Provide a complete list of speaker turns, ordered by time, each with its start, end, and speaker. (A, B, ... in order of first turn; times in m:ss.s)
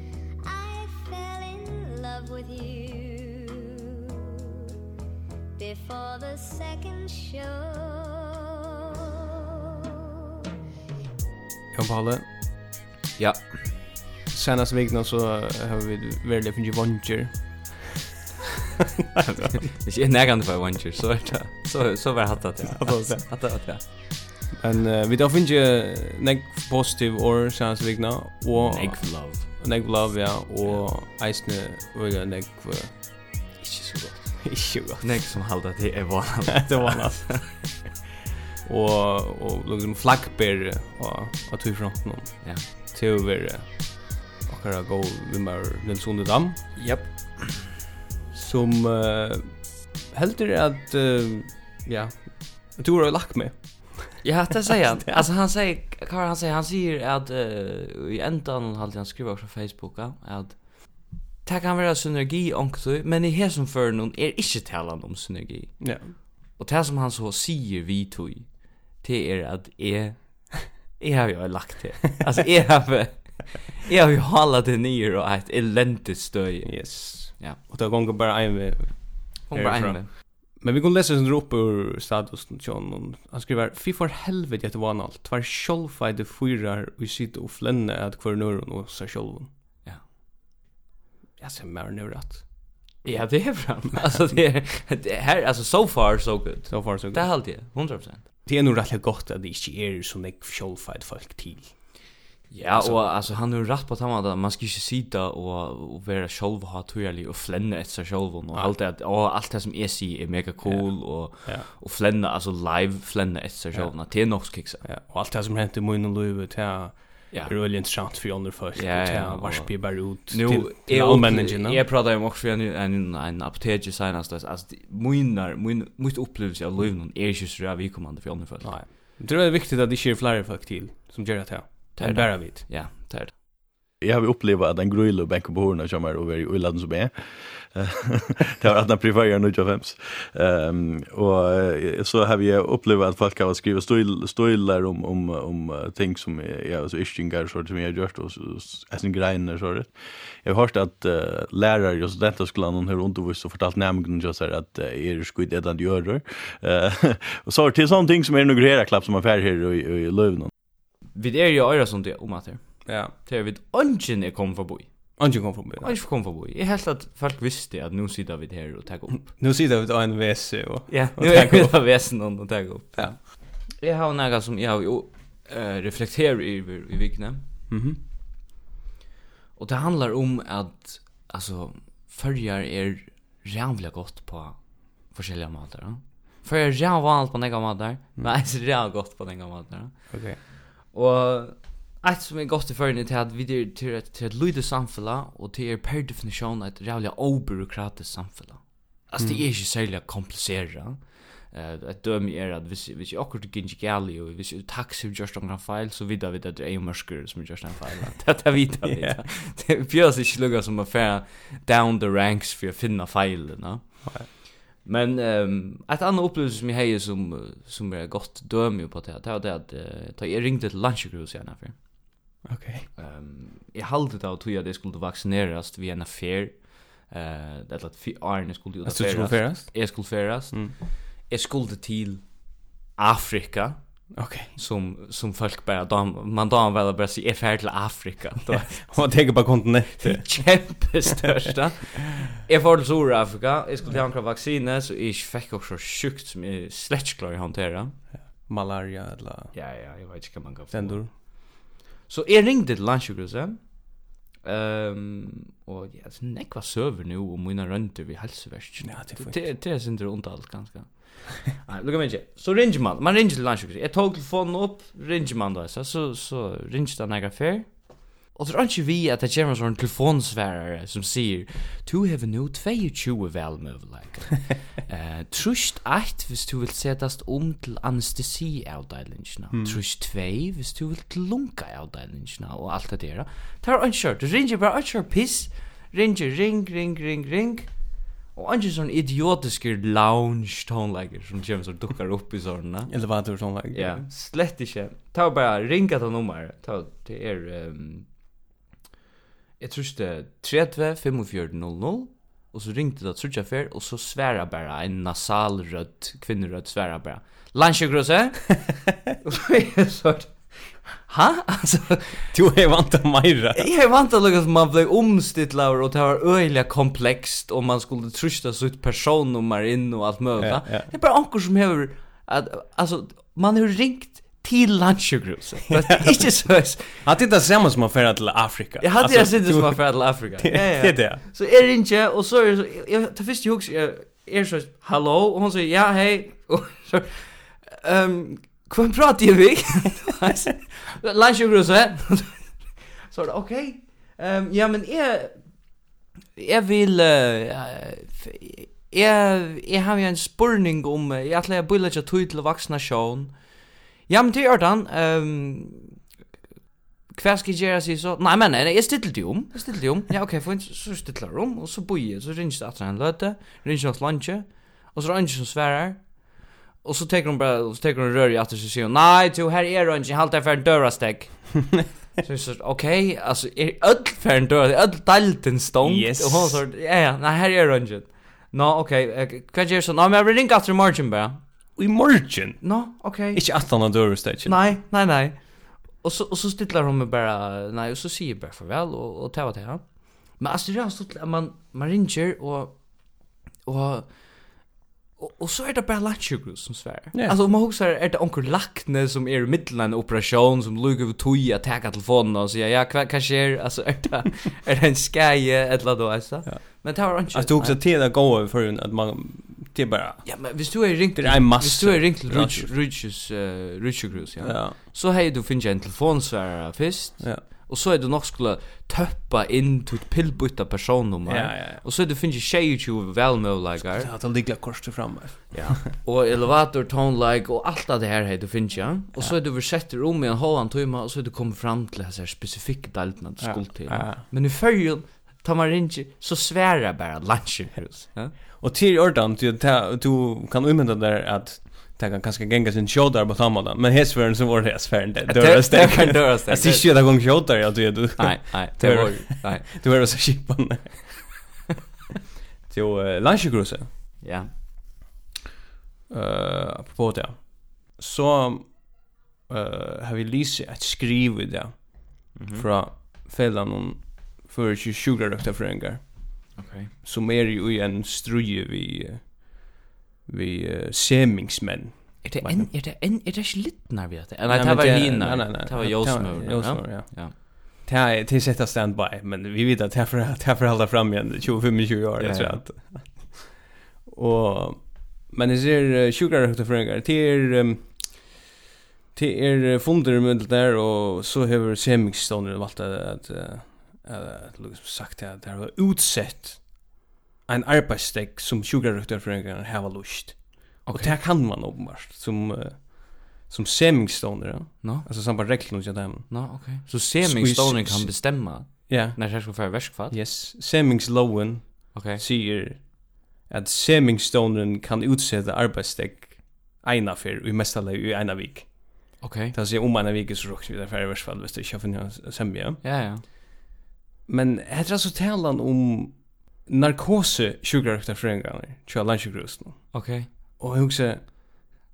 0:00.4-0:04.7 A
0:05.6-0:10.0 A
0:11.7-0:12.2 B
0:14.3-0:17.4 B
0:19.2-0:23.8 C
0:22.7-0:23.2 B
0:24.6-0:33.6 B
0:28.5-0:29.5 C
0:33.6-0:37.4 C
0:34.4-0:35.2 B
0:36.6-0:37.7 B
0:38.6-0:46.6 B
0:46.8-0:47.6 C
0:48.3-0:54.1 B
0:54.2-1:17.6 C
1:05.8-1:06.1 B
1:16.6-1:29.5 B
1:19.5-1:20.1 C
1:31.4-1:32.4 B
1:33.0-1:38.2 C
1:36.7-1:37.3 B
1:38.4-1:42.0 B
1:42.5-1:54.8 C
1:42.6-1:43.0 B
1:50.6-1:51.6 B
1:53.7-2:01.8 B
1:57.3-1:58.2 C
1:58.7-2:08.7 C
2:08.6-2:12.7 B
2:12.0-2:13.3 C
2:14.0-2:40.5 D
2:41.1-2:44.9 C
2:42.8-2:43.1 B
2:45.2-2:45.9 B
2:45.8-2:49.3 C
2:49.2-2:51.8 B
2:50.9-2:57.4 C
2:57.7-2:58.0 B
2:59.6-3:10.2 C
3:10.1-3:10.4 B
3:10.9-3:34.2 C
3:19.2-3:19.4 B
3:28.8-3:29.2 B
3:34.8-3:41.7 C
3:42.4-3:42.9 B
3:43.0-3:50.8 C
3:48.8-3:50.7 B
3:51.3-3:52.2 C
3:53.0-3:53.8 C
3:54.1-3:54.5 B
3:54.6-3:59.0 C
3:58.5-4:00.3 B
4:00.0-4:07.9 C
4:08.5-4:09.5 B
4:09.5-4:11.2 C
4:10.7-4:11.1 B
4:12.1-4:13.6 C
4:14.4-4:27.7 C
4:18.8-4:19.5 B
4:28.3-4:47.7 C
4:39.5-4:39.8 B
4:48.3-4:52.9 C
4:52.9-4:54.0 B
4:53.7-4:58.0 C
4:59.6-5:08.6 C
5:09.2-5:10.4 C
5:11.0-5:12.2 C
5:12.3-5:13.7 B
5:13.5-5:27.0 C
5:20.4-5:20.9 B
5:25.8-5:26.2 B
5:27.0-5:31.2 B
5:28.8-5:42.5 C
5:43.1-5:45.4 C
5:46.4-5:53.3 C
5:54.1-5:56.0 C
5:57.1-6:06.0 C
6:06.8-6:11.7 C
6:12.2-6:21.4 C
6:15.8-6:16.6 B
6:21.8-6:22.6 B
6:22.6-6:23.4 C
6:23.3-6:24.6 B
6:24.4-6:25.4 C
6:26.0-6:29.8 C
6:30.4-6:32.8 C
6:33.6-6:34.1 C
6:35.2-6:47.8 C
6:46.4-6:50.5 B
6:50.2-7:04.1 C
6:51.1-6:52.7 B
6:54.4-6:54.8 B
7:01.3-7:01.8 B
7:03.8-7:05.8 B
7:05.5-7:18.3 C
7:13.4-7:14.2 B
7:18.6-7:31.3 B
7:25.3-7:26.9 C
7:28.2-7:29.7 C
7:32.7-7:33.9 B
7:34.2-7:34.5 C
7:36.1-7:38.9 B
7:39.5-7:49.4 B
7:42.3-7:42.6 C
7:46.6-7:46.9 C
7:50.3-7:52.7 B
7:52.2-7:57.3 C
7:54.5-8:03.5 B
8:02.2-8:02.6 C
8:04.0-8:08.3 B
8:09.1-8:16.8 B
8:17.4-8:42.8 B
8:20.8-8:21.2 C
8:24.8-8:25.5 C
8:26.3-8:30.2 C
8:31.9-8:32.2 C
8:39.2-8:39.5 C
8:42.8-8:43.2 C
8:44.3-8:51.4 B
8:49.9-8:50.3 C